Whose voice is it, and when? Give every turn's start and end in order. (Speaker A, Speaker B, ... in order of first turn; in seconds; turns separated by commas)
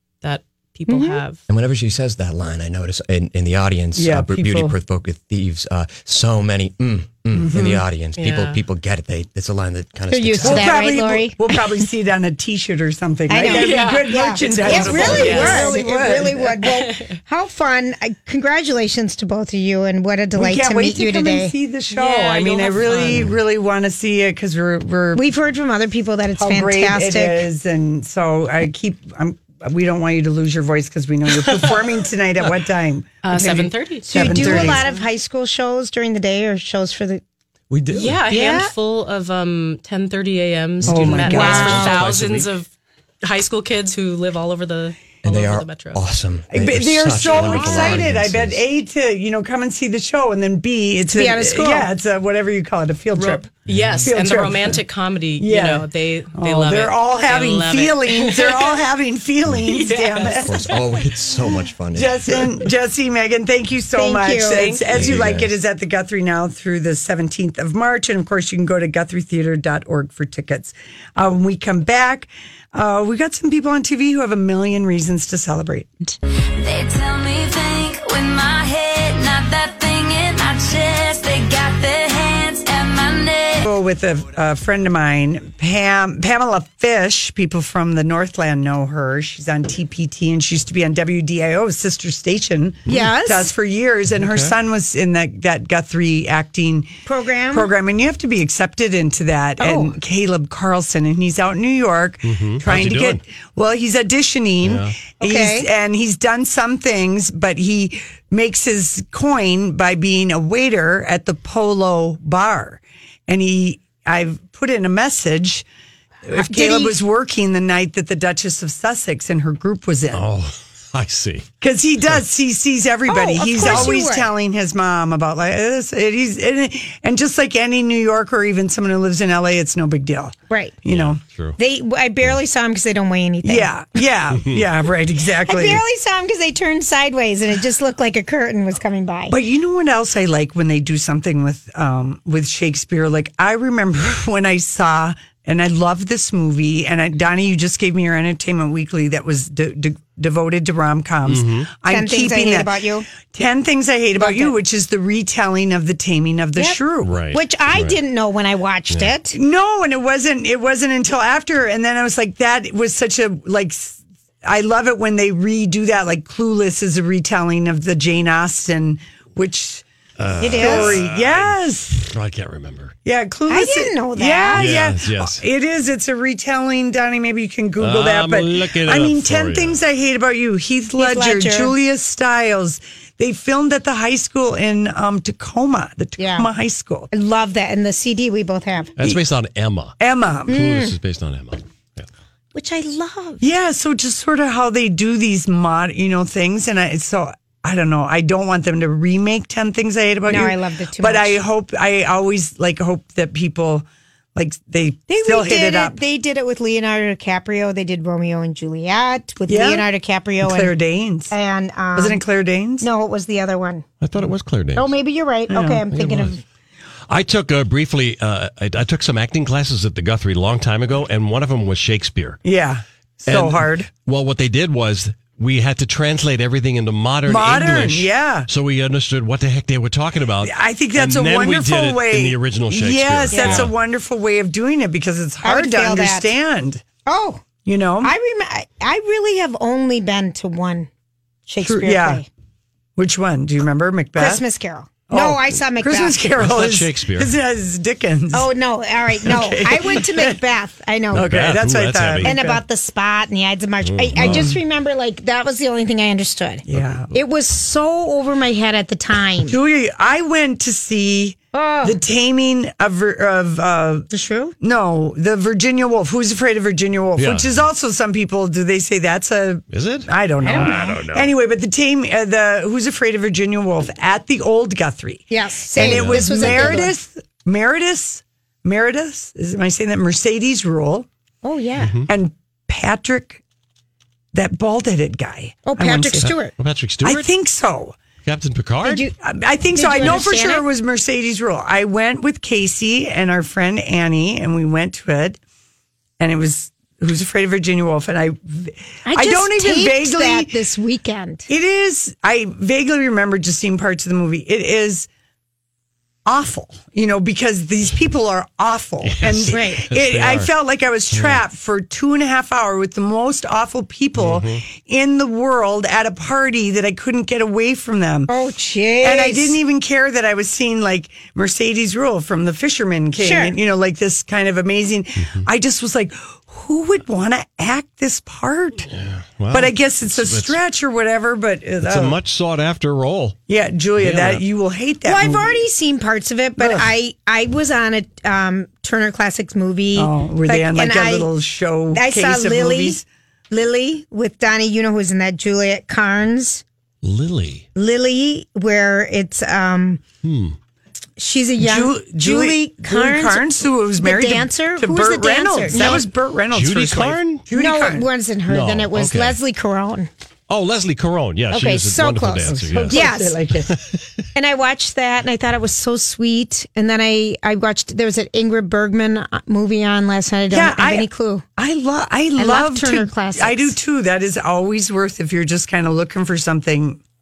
Speaker A: 0.2-1.4, Speaker B: 0.9-1.2, Speaker C: 1.5-10.9, Speaker D: 4.0-4.8, Speaker D: 7.3-7.8, Speaker A: 8.2-8.6, Speaker B: 10.1-11.4, Speaker D: 10.4-16.7, Speaker B: 13.3-21.5, Speaker A: 13.4-15.8, Speaker C: 14.7-15.3, Speaker A: 16.6-17.2, Speaker D: 20.4-25.2, Speaker A: 21.9-23.4, Speaker B: 25.1-27.4, Speaker D: 26.4-34.9, Speaker A: 31.4-31.8, Speaker A: 33.2-35.1, Speaker B: 34.0-37.2, Speaker C: 37.7-38.2, Speaker A: 37.9-42.7, Speaker B: 38.3-38.7, Speaker C: 40.8-42.5, Speaker D: 40.8-42.1, Speaker B: 41.3-42.0, Speaker A: 43.2-46.0, Speaker C: 45.2-48.6, Speaker D: 46.5-54.8, Speaker B: 47.3-48.0, Speaker B: 51.1-51.9, Speaker A: 53.1-58.8, Speaker E: 53.7-54.0, Speaker D: 55.4-60.7, Speaker A: 59.7-61.0, Speaker C: 60.2-62.4, Speaker D: 61.5-75.9, Speaker B: 64.0-64.8, Speaker C: 64.9-65.5, Speaker F: 76.6-83.7, Speaker D: 83.7-96.9, Speaker B: 92.9-93.5, Speaker E: 94.2-94.5, Speaker B: 97.1-97.7, Speaker D: 97.5-115.7, Speaker B: 99.6-100.0, Speaker E: 102.2-103.2, Speaker E: 104.6-105.0, Speaker B: 105.2-105.7, Speaker D: 116.2-120.2, Speaker B: 116.4-117.0, Speaker E: 120.1-121.5, Speaker D: 121.6-131.2, Speaker B: 123.1-124.3, Speaker E: 123.6-123.9, Speaker B: 130.5-130.8, Speaker E: 130.9-131.6, Speaker B: 131.6-133.7, Speaker D: 133.4-135.8, Speaker B: 135.4-139.3, Speaker D: 139.3-152.8, Speaker E: 151.3-151.7, Speaker B: 151.9-153.1, Speaker D: 153.3-157.1, Speaker B: 154.2-154.6, Speaker E: 157.0-158.0, Speaker B: 157.3-159.4, Speaker D: 159.3-169.8, Speaker E: 170.2-172.9, Speaker B: 170.4-171.0, Speaker D: 170.4-172.1, Speaker D: 173.1-187.1, Speaker B: 173.5-174.7, Speaker E: 174.5-175.4, Speaker E: 177.8-179.8, Speaker B: 181.0-181.8, Speaker B: 186.2-186.5, Speaker B: 187.1-188.9, Speaker E: 189.0-192.1, Speaker D: 190.0-190.6, Speaker B: 190.5-190.9, Speaker B: 192.6-193.4, Speaker D: 193.4-203.8, Speaker B: 200.3-201.4, Speaker D: 204.3-206.0, Speaker B: 205.1-210.7, Speaker D: 209.5-209.9, Speaker D: 210.4-211.3, Speaker B: 211.3-212.2, Speaker D: 211.9-212.9, Speaker B: 212.8-213.8, Speaker E: 214.0-214.9, Speaker B: 214.8-216.4, Speaker D: 215.5-215.8, Speaker E: 215.9-216.4, Speaker E: 217.1-222.4, Speaker D: 222.4-223.9, Speaker E: 223.2-233.7, Speaker D: 227.3-228.5, Speaker D: 230.4-236.8, Speaker B: 233.3-233.7, Speaker B: 235.4-236.3, Speaker B: 237.1-237.4, Speaker D: 237.7-238.1, Speaker B: 238.0-240.9, Speaker B: 241.5-242.3, Speaker D: 241.6-242.2, Speaker D: 243.0-244.4, Speaker B: 244.2-246.2, Speaker D: 245.1-248.5, Speaker E: 246.4-247.3, Speaker B: 248.3-251.3, Speaker D: 249.2-250.4, Speaker D: 251.1-252.6, Speaker E: 251.1-252.4, Speaker B: 252.2-259.6, Speaker E: 253.8-254.5, Speaker D: 254.2-254.6, Speaker D: 256.7-257.1, Speaker E: 256.7-257.0, Speaker D: 259.4-264.1, Speaker B: 261.5-262.0, Speaker B: 264.1-264.5, Speaker D: 264.6-281.1, Speaker E: 267.2-267.6, Speaker E: 269.7-271.3, Speaker B: 270.4-271.0, Speaker B: 275.3-276.9, Speaker E: 275.8-276.8, Speaker B: 281.4-281.9, Speaker E: 281.8-282.1, Speaker D: 282.1-283.4, Speaker D: 284.3-286.3, Speaker B: 285.7-286.5, Speaker E: 286.2-287.3, Speaker D: 287.0-288.0, Speaker E: 288.2-289.1, Speaker B: 288.8-289.1, Speaker D: 289.2-295.4, Speaker B: 289.8-290.7, Speaker D: 296.2-300.6, Speaker B: 299.1-301.5, Speaker D: 301.5-305.1, Speaker D: 306.3-318.3, Speaker E: 309.0-310.5, Speaker B: 309.5-309.8, Speaker E: 311.1-311.4, Speaker E: 314.2-314.6, Speaker B: 318.3-319.6, Speaker D: 319.0-328.9, Speaker B: 323.2-323.6, Speaker E: 328.9-330.6, Speaker D: 329.5-332.2, Speaker E: 331.8-333.4, Speaker D: 333.5-335.6, Speaker E: 334.0-334.4, Speaker B: 335.1-341.3, Speaker D: 336.6-336.9, Speaker D: 340.0-343.1, Speaker B: 341.9-343.0, Speaker B: 343.5-346.6, Speaker E: 347.0-347.6, Speaker B: 347.8-350.0, Speaker E: 350.2-350.6, Speaker B: 351.2-356.1, Speaker D: 351.6-358.1, Speaker E: 356.5-357.4, Speaker B: 357.6-360.1, Speaker E: 358.5-359.4, Speaker E: 360.5-363.0, Speaker B: 361.5-363.4, Speaker D: 362.5-363.7, Speaker E: 363.7-364.1, Speaker B: 364.4-371.4, Speaker D: 370.5-377.0, Speaker B: 372.4-373.8